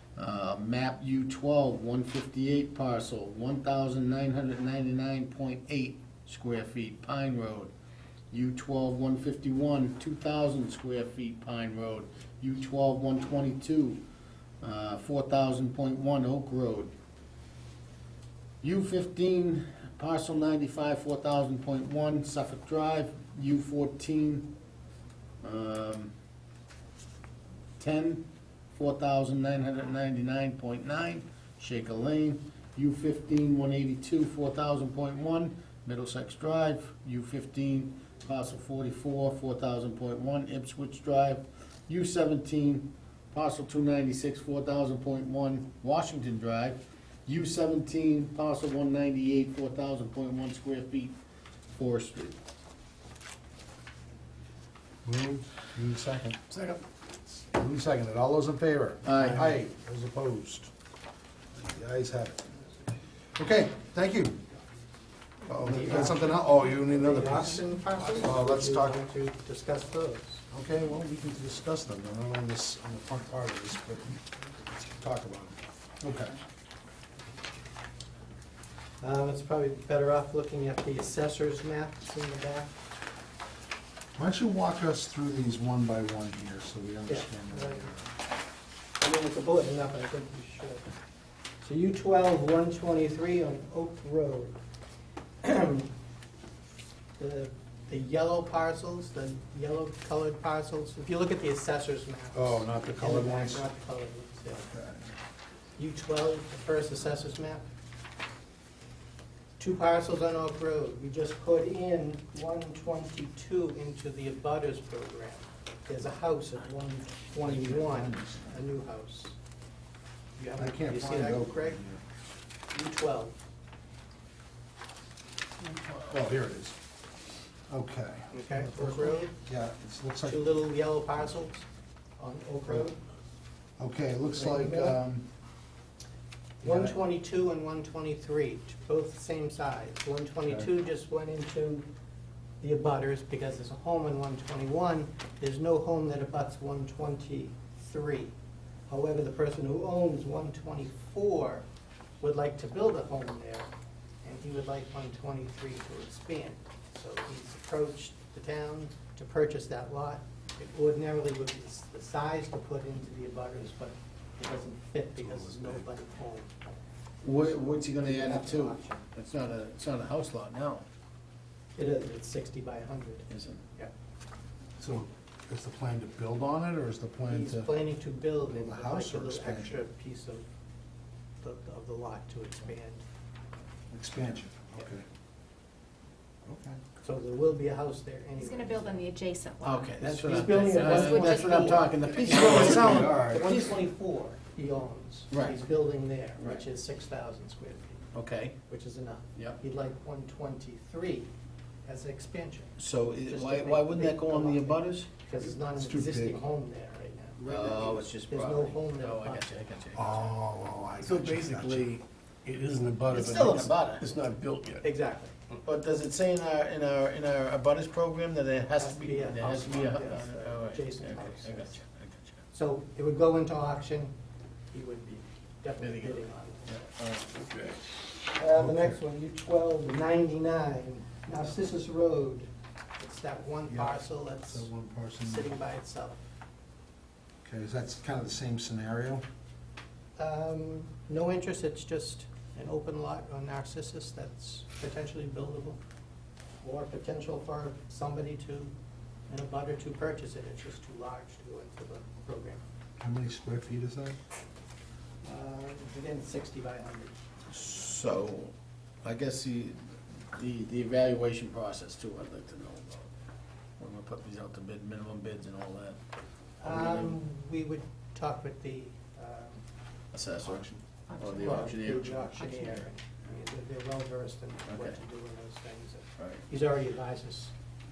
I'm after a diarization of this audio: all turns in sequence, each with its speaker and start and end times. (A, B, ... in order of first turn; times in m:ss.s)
0:00.2-0:07.7 A
0:08.3-0:14.0 A
0:14.6-0:16.9 A
0:18.6-0:24.5 A
0:25.4-0:26.1 A
0:27.8-0:28.2 A
0:28.8-0:51.1 A
0:51.8-0:52.4 A
0:55.0-0:56.6 B
0:57.5-1:00.7 B
0:59.0-0:59.6 A
1:01.5-1:02.4 B
1:03.4-1:04.4 B
1:05.4-1:07.6 B
1:05.6-1:10.4 C
1:08.2-1:09.0 B
1:10.5-1:14.2 B
1:14.8-1:16.4 B
1:19.0-1:22.8 C
1:24.2-1:28.1 B
1:27.1-1:27.9 C
1:29.0-1:30.9 C
1:31.6-1:34.6 C
1:35.4-1:35.9 C
1:37.2-1:44.6 C
1:42.3-1:43.6 B
1:44.5-1:45.0 B
1:45.8-1:47.6 C
1:49.6-1:59.4 C
1:57.4-1:58.5 B
2:00.4-2:01.8 C
2:00.6-2:02.0 B
2:02.7-2:03.3 C
2:05.6-2:06.2 A
2:06.1-2:06.8 B
2:07.7-2:10.6 B
2:08.3-2:09.4 C
2:10.2-2:11.6 C
2:12.2-2:13.0 C
2:13.8-2:15.3 B
2:14.3-2:15.0 C
2:16.6-2:21.9 C
2:16.6-2:16.9 B
2:22.6-2:28.3 C
2:28.9-2:31.6 C
2:32.2-2:33.7 C
2:34.2-2:46.5 C
2:45.2-2:45.8 B
2:47.2-2:50.8 A
2:47.4-2:49.1 C
2:51.8-2:53.9 C
2:53.3-2:53.6 A
2:54.8-2:57.7 B
2:57.2-3:00.4 C
2:58.4-2:59.8 B
3:01.4-3:03.0 C
3:03.9-3:05.0 B
3:06.4-3:06.8 B
3:07.0-3:09.1 C
3:08.4-3:09.9 D
3:09.6-3:13.7 A
3:10.0-3:18.0 C
3:10.8-3:11.7 D
3:12.2-3:13.5 B
3:15.3-3:15.6 A
3:16.4-3:16.6 A
3:18.1-3:18.6 A
3:18.7-3:21.3 C
3:19.3-3:19.6 A
3:21.8-3:22.7 C
3:22.8-3:25.1 A
3:23.2-3:29.6 C
3:25.6-3:26.4 B
3:27.4-3:30.3 A
3:29.9-3:31.9 B
3:31.0-3:34.9 E
3:33.1-3:34.1 A
3:34.8-3:35.3 C
3:35.6-3:42.4 A
3:38.8-3:41.8 C
3:42.5-3:44.1 C
3:44.7-3:46.8 C
3:45.8-3:47.8 A
3:48.3-3:54.7 C
3:48.5-3:49.0 B
3:53.7-3:55.5 B
3:55.2-3:56.2 C
3:57.4-3:59.2 B
4:00.2-4:05.8 C
4:06.6-4:08.7 C
4:09.3-4:12.6 C
4:13.0-4:14.2 B
4:15.2-4:17.2 C
4:17.5-4:19.8 A
4:20.3-4:23.1 A
4:23.8-4:26.0 A
4:26.6-4:27.2 A
4:26.6-4:29.6 C
4:30.1-4:32.9 A
4:31.2-4:37.5 C
4:34.7-4:35.0 A
4:36.2-4:36.4 A